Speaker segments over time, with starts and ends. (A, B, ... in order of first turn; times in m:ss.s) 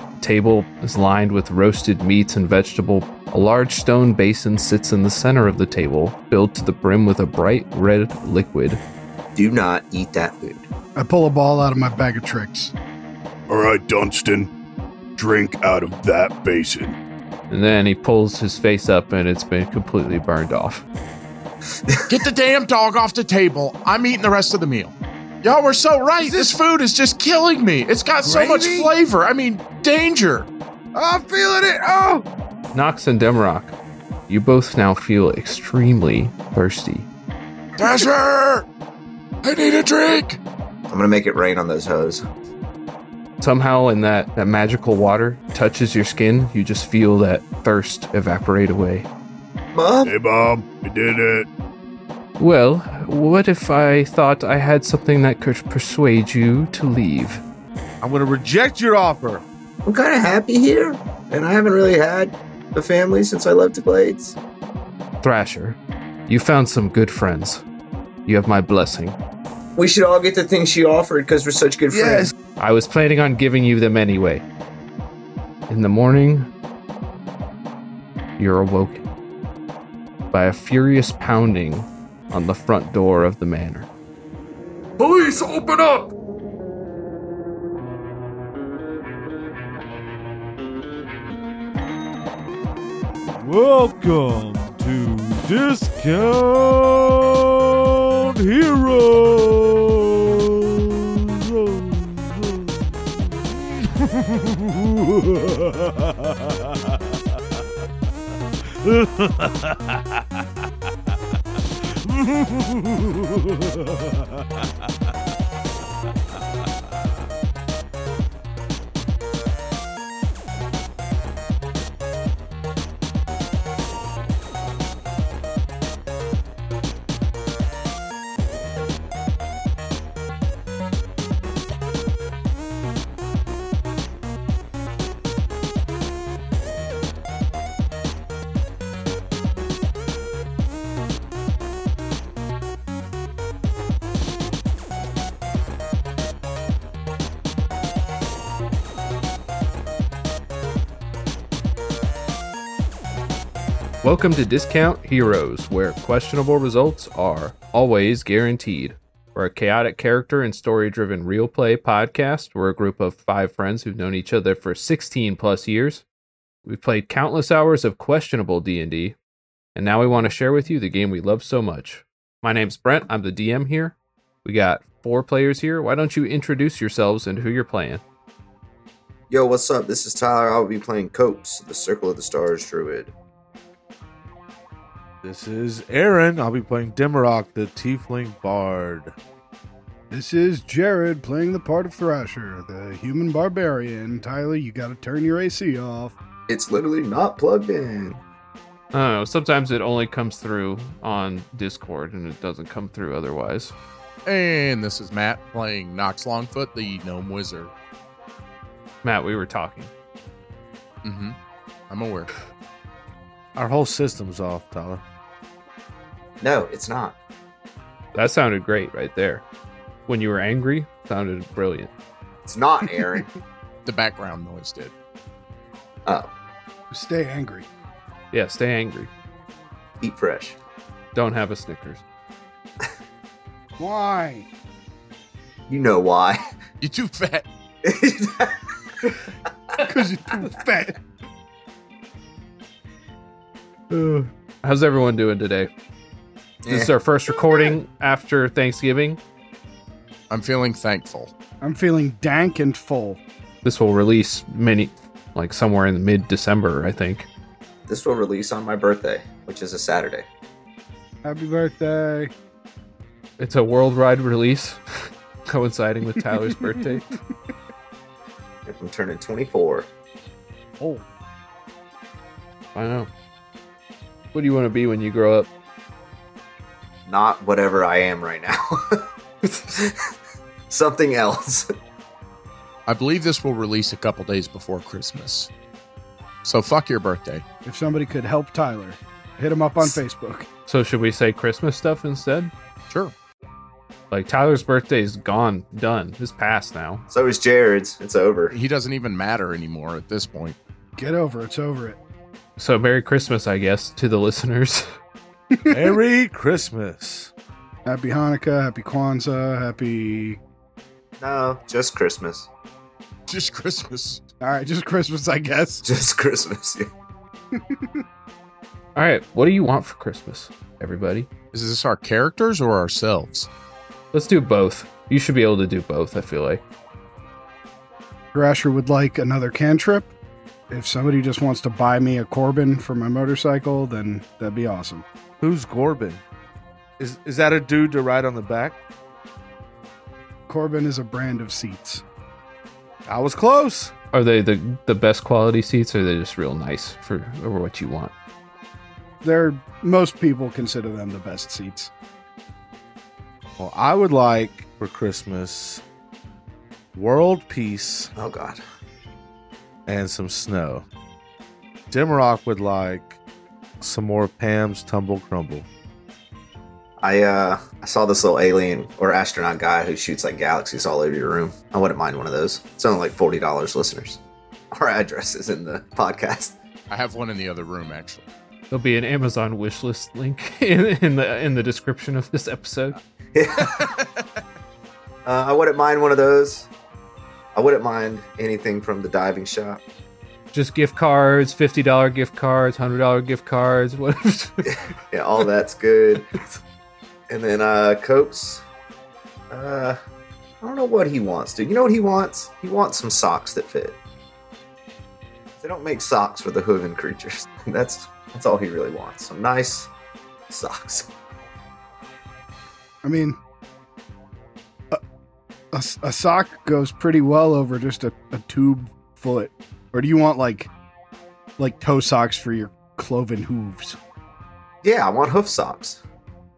0:00.2-0:08.8 A
0:09.4-0:10.7 B
0:11.0-0:12.7 C
0:13.5-0:14.5 D
0:15.2-0:17.0 D
0:17.5-0:20.8 A
0:21.9-0:22.2 B
0:22.1-0:30.5 E
0:26.2-0:26.6 F
0:28.2-0:28.9 F
0:30.9-0:32.3 F
0:32.7-0:33.8 A
0:34.3-0:37.1 A
0:37.8-0:38.7 E
0:37.8-0:38.1 B
0:39.4-0:40.4 E
0:40.9-0:42.2 B
0:43.4-0:49.1 A
0:49.7-0:50.1 B
0:50.0-0:51.5 D
0:52.4-0:57.4 A
0:58.0-0:59.4 F
0:59.9-1:04.4 B
1:05.2-1:07.6 A
1:08.3-1:09.2 A
1:09.8-1:12.3 B
1:11.9-1:12.3 F
1:12.6-1:14.4 A
1:15.7-1:16.5 A
1:18.4-1:19.1 A
1:20.3-1:23.9 A
1:25.0-1:26.1 A
1:33.3-1:47.6 F
1:48.6-1:50.5 F
1:51.8-1:54.7 F
2:34.0-2:46.0 A
2:46.6-2:49.2 A
2:49.8-2:58.0 A
2:59.3-3:03.1 B
3:05.2-3:09.1 F
3:10.1-3:16.2 C
3:16.5-3:18.2 B
3:18.9-3:23.7 A
3:24.3-3:27.7 E
3:29.0-3:29.9 A
3:31.0-3:31.4 E
3:31.9-3:32.3 E
3:33.6-3:35.0 F
3:36.4-3:37.2 B
3:38.1-3:39.4 A
3:40.1-3:41.9 A
3:42.5-3:43.3 B
3:43.9-3:44.9 E
3:46.9-3:47.7 C
3:48.3-3:49.1 A
3:50.0-3:50.6 B
3:51.2-3:52.0 A
3:53.8-3:54.5 C
3:55.7-3:56.4 B
3:56.8-3:57.5 E
3:57.8-3:58.6 B
3:59.8-4:01.0 C
4:03.9-4:05.7 A
4:06.6-4:06.9 B
4:06.7-4:09.2 A
4:10.3-4:11.3 E
4:11.6-4:13.2 C
4:13.6-4:17.3 A
4:17.9-4:20.3 B
4:21.2-4:22.3 C
4:23.4-4:24.8 A
4:25.5-4:27.2 A
4:28.7-4:29.9 B
4:30.8-4:31.1 C
4:32.8-4:33.1 A
4:34.3-4:35.5 A
4:37.1-4:39.0 B
4:39.7-4:40.0 B
4:40.7-4:41.7 B
4:42.9-4:45.5 E
4:46.4-4:47.4 E
4:47.7-4:50.5 C
4:50.7-4:52.5 A
4:54.1-4:57.0 A
4:57.1-4:58.6 B
4:58.5-5:00.6 E
5:01.0-5:02.0 C
5:02.6-5:04.9 A
5:05.5-5:05.9 C
5:05.7-5:07.3 F
5:07.8-5:10.4 C
5:11.2-5:12.5 B
5:13.3-5:14.2 E
5:14.4-5:15.8 C
5:15.9-5:16.9 B
5:17.5-5:17.9 C
5:19.0-5:21.3 A
5:21.5-5:23.5 E
5:24.1-5:26.6 A
5:28.3-5:30.1 C
5:30.7-5:35.0 C
5:35.4-5:36.2 F
5:37.0-5:38.8 F
5:40.5-5:42.0 C
5:43.1-5:43.9 F
5:44.1-5:48.1 A
5:49.2-5:51.9 C
5:53.6-5:55.8 F
5:56.9-5:58.1 F
5:58.2-5:58.6 B
5:59.9-6:00.8 F
6:01.9-6:03.2 F
6:03.8-6:05.7 F
6:07.0-6:14.2 B
6:14.7-6:16.6 B
6:16.9-6:18.3 E
6:18.7-6:23.0 A
6:23.4-6:24.0 B
6:25.3-6:26.7 B
6:27.6-6:29.8 B
6:30.5-6:34.8 A
6:34.6-6:36.3 B
6:37.3-6:38.6 B
6:39.5-6:40.0 B
6:40.6-6:44.0 B
6:45.6-6:49.9 B
6:50.5-6:51.1 B
6:53.0-6:53.4 C
6:55.7-7:00.7 C
7:01.6-7:04.0 C
7:04.8-7:06.0 B